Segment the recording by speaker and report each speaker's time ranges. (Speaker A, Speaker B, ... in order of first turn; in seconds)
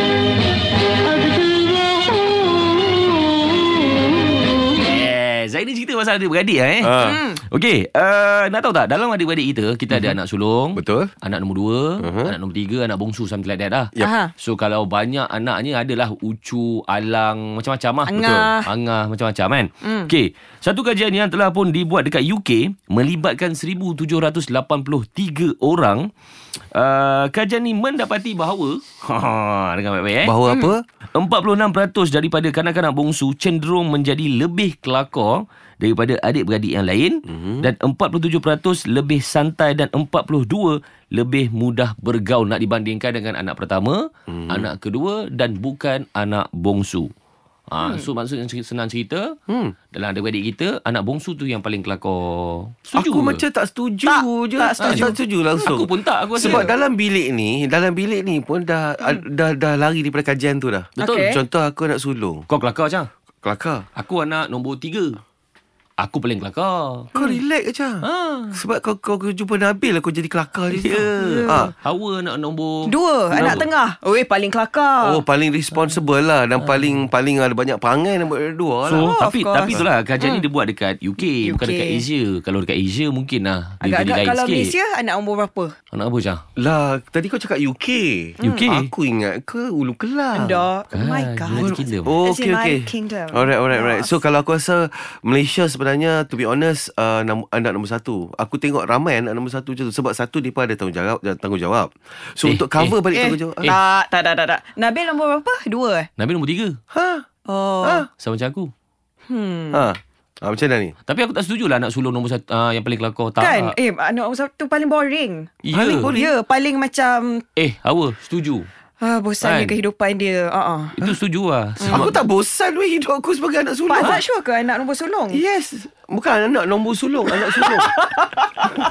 Speaker A: 4.7-26.1, 26.7-30.4, 31.1-47.1, 47.7-49.4, 49.9-53.4, 54.8-56.7, 62.5-63.1, 64.0-65.2, 66.0-67.1, 68.0-68.6, 70.7-73.7, 76.6-77.0, 78.8-84.8, 85.9-86.4, 88.4-88.9, 90.9-92.2, 102.4-103.0, 106.2-106.8, 108.2-108.7, 111.1-113.8, 115.6-116.1, 117.6-118.7, 119.4-119.8, 121.0-122.2
Speaker B: 6.8-7.2, 10.8-11.1, 12.0-12.3, 30.2-30.8, 37.3-37.7, 44.3-44.7, 49.5-49.7, 53.0-62.5, 63.4-63.9, 67.1-71.7, 73.3-73.6, 75.0-79.2, 86.6-90.7, 91.6-103.8, 106.9-107.3, 107.8-108.1, 109.7-111.0, 115.7-116.3, 121.9-124.2, 125.3-128.1
Speaker C: 7.0-7.4, 14.0-14.3, 18.1-18.7, 54.1-55.1, 56.4-56.7, 61.0-61.4, 67.2-67.4, 71.2-71.6, 72.8-75.2, 79.0-80.4, 81.4-82.0, 83.8-85.8, 88.4-88.7, 90.3-94.2, 103.1-106.1, 107.5-108.1, 109.3-109.9, 113.4-117.5, 119.0-121.0, 121.8-122.1, 123.9-125.4